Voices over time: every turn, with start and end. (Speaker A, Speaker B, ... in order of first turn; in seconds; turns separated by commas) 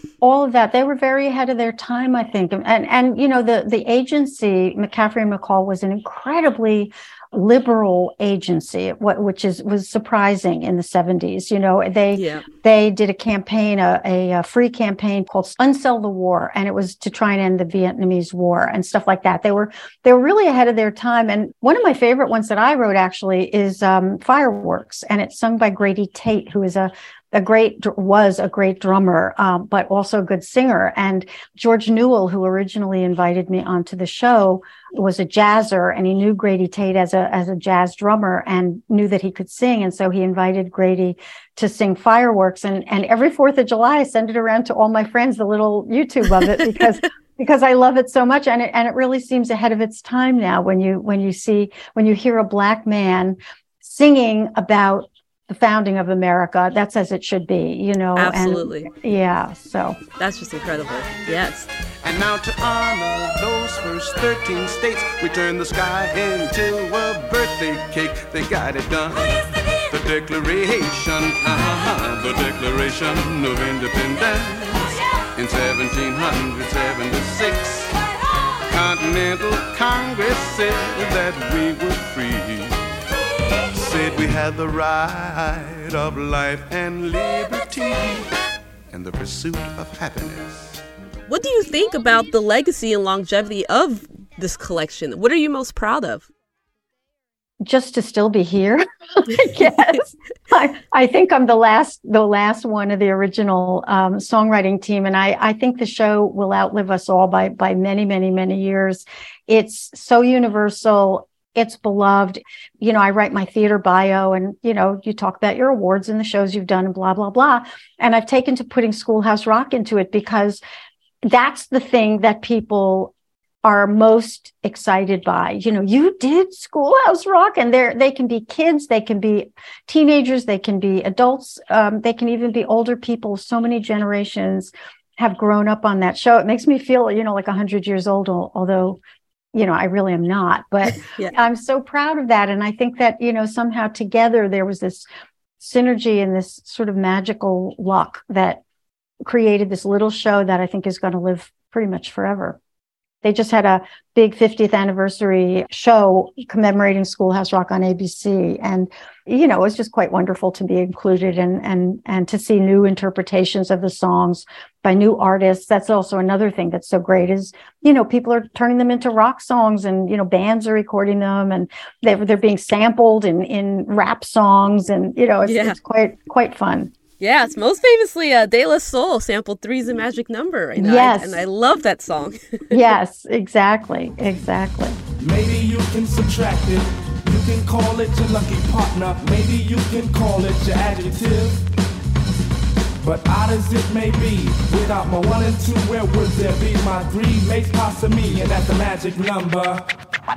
Speaker A: 0.2-60.0, Speaker B: 12.1-12.5, Speaker B: 58.2-58.9, Speaker B: 60.2-61.7, Speaker C: 62.0-78.0, Speaker C: 78.6-82.8, Speaker C: 83.5-88.3, Speaker C: 88.9-90.8, Speaker B: 91.3-96.3, Speaker A: 97.6-120.6, Speaker A: 121.2-123.1, Speaker A: 123.6-139.0, Speaker A: 139.5-145.1, Speaker B: 141.0-141.3, Speaker A: 145.6-148.6, Speaker A: 149.2-152.6, Speaker A: 153.2-176.9, Speaker B: 175.4-175.8, Speaker B: 177.2-183.0, Speaker A: 180.8-181.4, Speaker A: 182.7-185.0, Speaker D: 185.2-191.6, Speaker D: 193.0-199.8